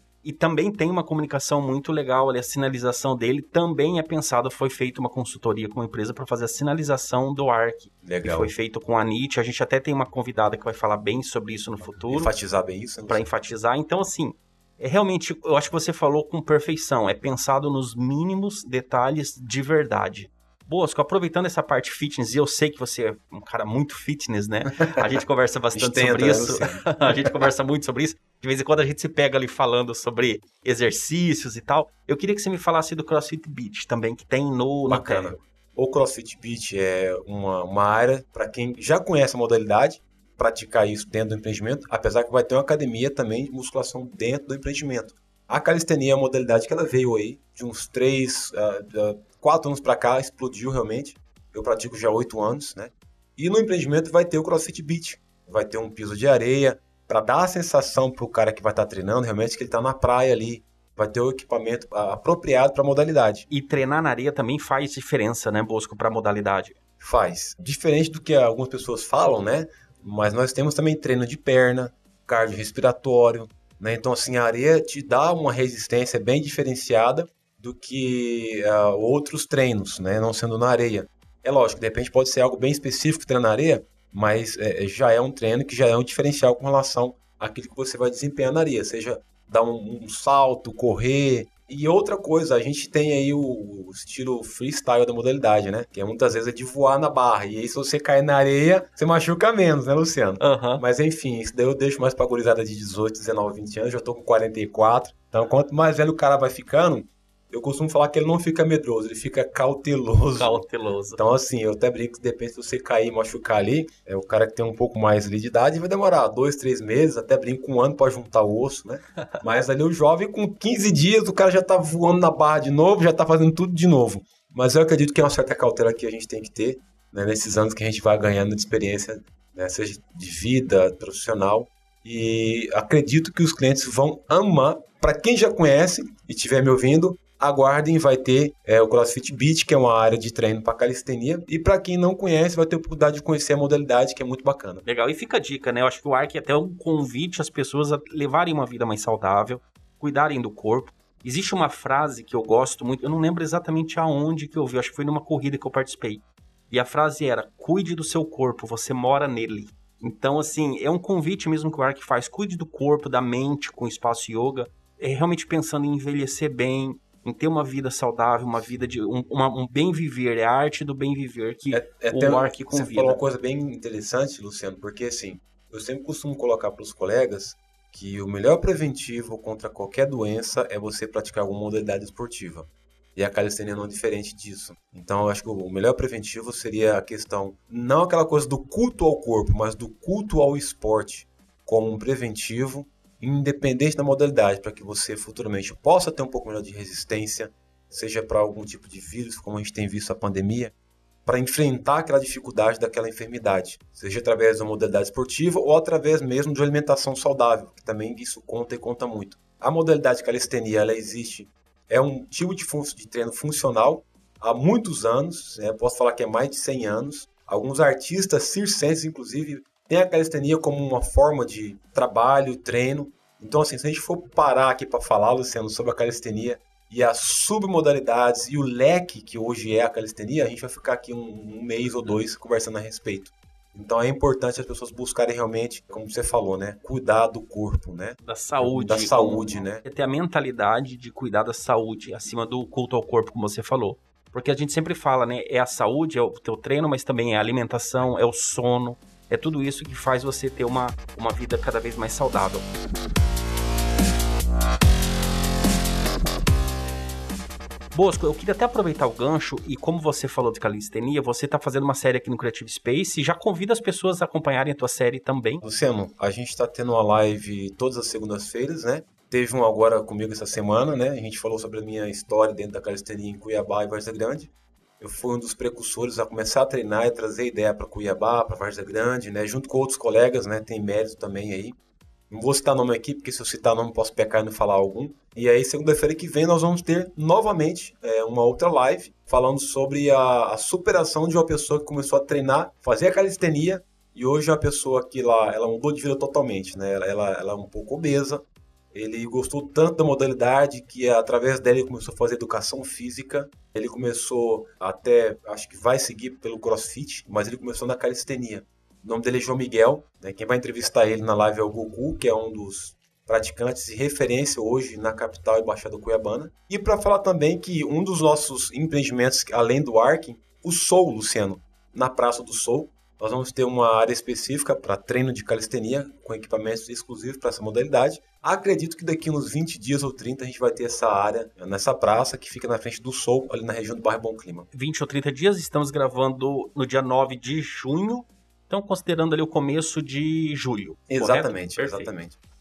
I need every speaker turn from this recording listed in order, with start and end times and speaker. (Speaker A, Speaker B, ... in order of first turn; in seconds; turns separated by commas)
Speaker A: 0.2-12.3, Speaker B: 8.0-8.5, Speaker B: 11.8-13.3, Speaker A: 13.1-35.4, Speaker B: 24.7-25.1, Speaker B: 25.7-27.3, Speaker B: 34.9-63.5, Speaker A: 63.5-66.8, Speaker B: 67.0-110.6, Speaker A: 100.4-100.8, Speaker A: 110.3-111.2, Speaker B: 111.2-144.8, Speaker A: 144.8-173.2, Speaker B: 171.7-200.7, Speaker B: 201.2-239.8, Speaker A: 238.2-252.7, Speaker A: 257.9-265.6, Speaker B: 265.6-281.8, Speaker B: 282.3-334.7, Speaker A: 334.7-342.1, Speaker B: 341.1-342.4